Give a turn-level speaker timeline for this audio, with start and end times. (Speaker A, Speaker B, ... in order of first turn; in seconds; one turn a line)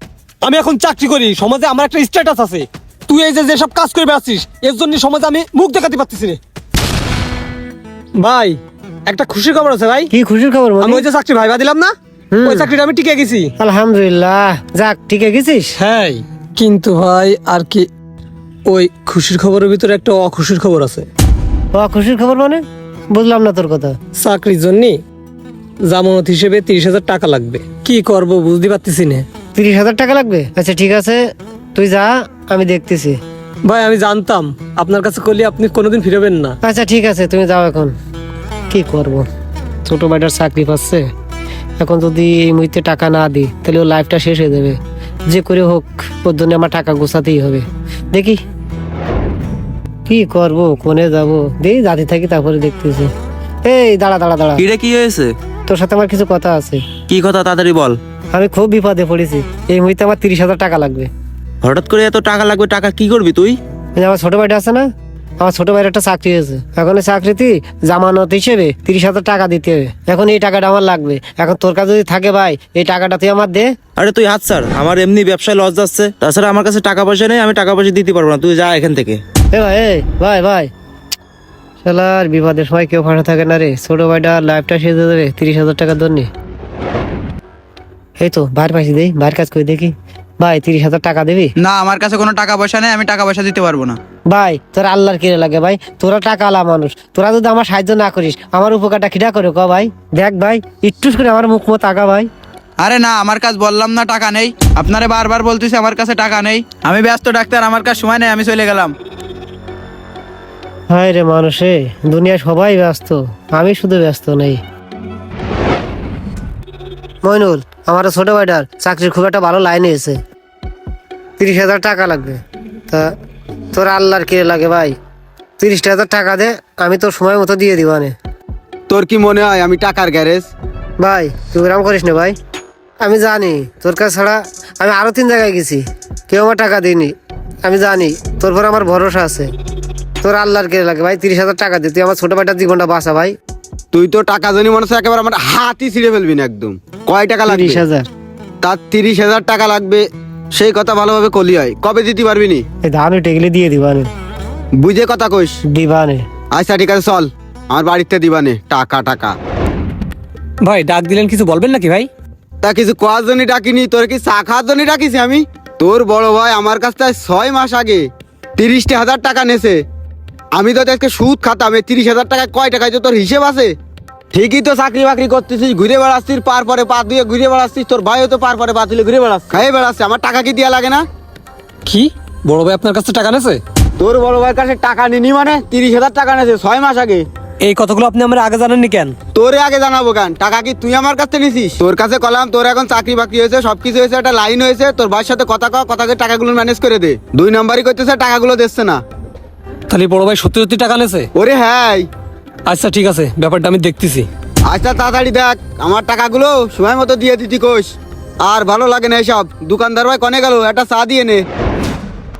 Speaker A: 0.4-6.4
Speaker A: 8.2-10.1
Speaker B: 10.1-11.1
Speaker A: 10.8-11.9
Speaker B: 12.3-12.7
Speaker A: 12.4-13.5
Speaker B: 13.6-15.7
Speaker A: 15.8-17.9
Speaker A: 18.7-21.1
Speaker B: 21.7-22.6
Speaker B: 23.1-23.9
Speaker A: 24.2-25.0
Speaker A: 25.9-29.2
Speaker B: 29.5-31.2
Speaker B: 31.7-33.2
Speaker A: 33.6-36.6
Speaker B: 36.6-37.9
Speaker B: 38.7-39.2
Speaker B: 39.9-41.1
Speaker B: 41.8-44.8
Speaker B: 45.3-48.4
Speaker B: 50.0-53.1
Speaker B: 53.6-54.6
Speaker C: 54.6-55.3
Speaker B: 55.7-56.8
Speaker C: 57.1-58.0
Speaker B: 58.3-61.1
Speaker C: 61.6-63.6
Speaker B: 64.0-64.9
Speaker B: 65.4-73.7
Speaker C: 74.0-79.2
Speaker B: 79.5-80.7
Speaker B: 81.8-86.3
Speaker B: 88.2-91.5
Speaker D: 91.6-94.0
Speaker B: 94.3-102.3
Speaker D: 102.8-108.9
Speaker B: 110.9-114.6
Speaker B: 117.2-120.2
Speaker B: 121.4-123.1
Speaker B: 123.7-125.0
Speaker B: 125.6-128.1
Speaker E: 128.9-130.5
Speaker B: 131.0-132.3
Speaker B: 133.0-137.1
Speaker B: 137.6-139.5
Speaker B: 140.2-143.3
Speaker E: 143.9-147.8
Speaker B: 147.5-148.1
Speaker E: 148.6-152.6
Speaker B: 152.8-154.1
Speaker E: 154.8-155.6
Speaker B: 155.7-156.2
Speaker E: 156.5-159.3
Speaker A: 160.6-162.1
Speaker E: 162.6-168.0
Speaker E: 168.6-169.8
Speaker E: 170.5-173.8
Speaker E: 174.3-181.0
Speaker A: 181.8-183.6
Speaker E: 184.0-187.3
Speaker A: 187.6-189.1
Speaker E: 189.3-199.0
Speaker A: 199.9-201.3
Speaker E: 201.3-202.1
Speaker A: 202.7-204.3
Speaker E: 204.7-207.9
Speaker E: 208.4-211.4